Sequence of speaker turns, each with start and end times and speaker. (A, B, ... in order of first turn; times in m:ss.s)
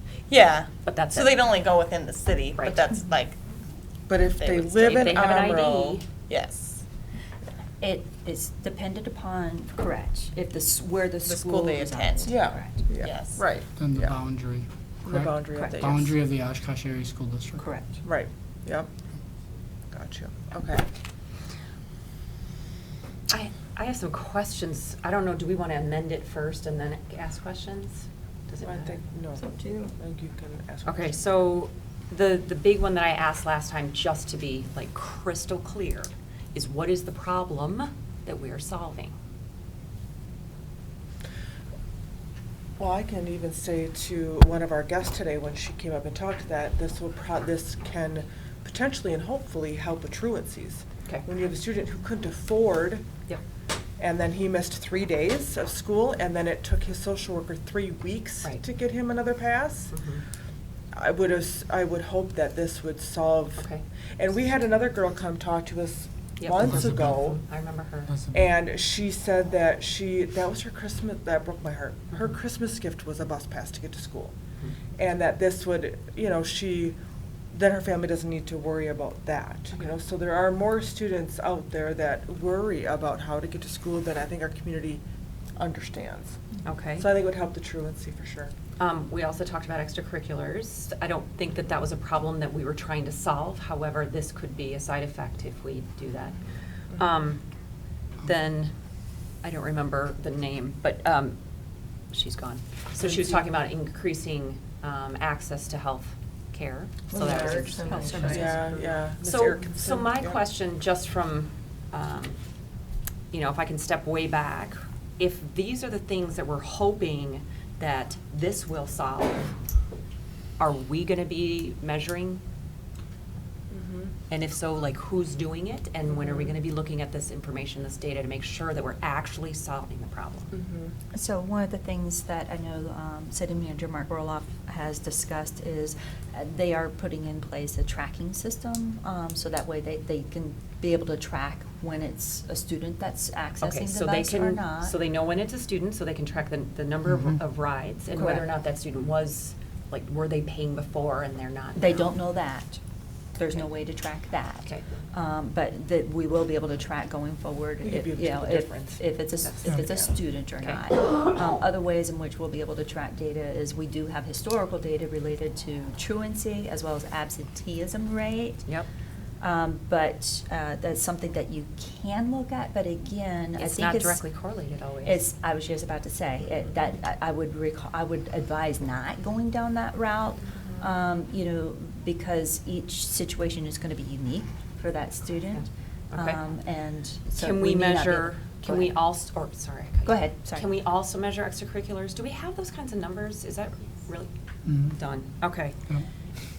0:00.3-0:03.4 A
0:00.8-0:01.5 B
0:02.5-0:02.8 B
0:04.1-0:05.8 C
0:04.3-0:06.8 A
0:04.8-0:06.0 B
0:07.8-0:12.9 D
0:11.2-0:12.3 A
0:12.2-0:14.1 C
0:13.0-0:13.4 A
0:13.8-0:17.7 E
0:15.0-0:16.1 C
0:15.5-0:15.9 D
0:17.6-0:17.9 D
0:18.0-0:18.9 C
0:19.9-0:20.9 C
0:23.3-0:29.0 B
0:28.6-0:31.3 C
0:29.5-0:29.8 A
0:30.8-0:39.1 B
0:42.8-0:53.1 C
0:54.0-0:59.9 C
0:59.9-1:00.2 B
1:00.9-1:07.4 C
1:03.6-1:03.8 B
1:06.4-1:08.1 B
1:06.6-1:07.1 E
1:08.1-1:08.5 E
1:08.3-1:14.3 C
1:15.0-1:17.0 C
1:17.5-1:25.0 C
1:25.6-1:26.4 C
1:26.6-1:27.1 B
1:27.0-1:28.5 C
1:28.8-1:36.4 B
1:36.9-1:37.4 B
1:38.2-1:38.7 B
1:39.4-1:41.4 B
1:42.1-1:48.6 B
1:47.1-1:49.0 A
1:47.7-1:48.6 D
1:48.2-1:50.4 C
1:49.2-1:52.4 B
1:53.3-1:59.5 B
2:00.6-2:02.4 B
2:03.7-2:04.1 C
2:04.3-2:10.5 B
2:10.5-2:10.9 C
2:11.1-2:24.9 D
2:23.6-2:32.1 B
2:28.1-2:28.5 D
2:31.8-2:32.8 D
2:33.4-2:48.7 D
2:37.8-2:39.0 C
2:49.4-2:54.2 D
2:53.6-2:55.2 B
2:55.0-3:08.9 D
3:05.5-3:06.4 B
3:07.3-3:14.3 B
3:10.0-3:10.7 D
3:14.6-3:15.0 E
3:14.9-3:15.8 B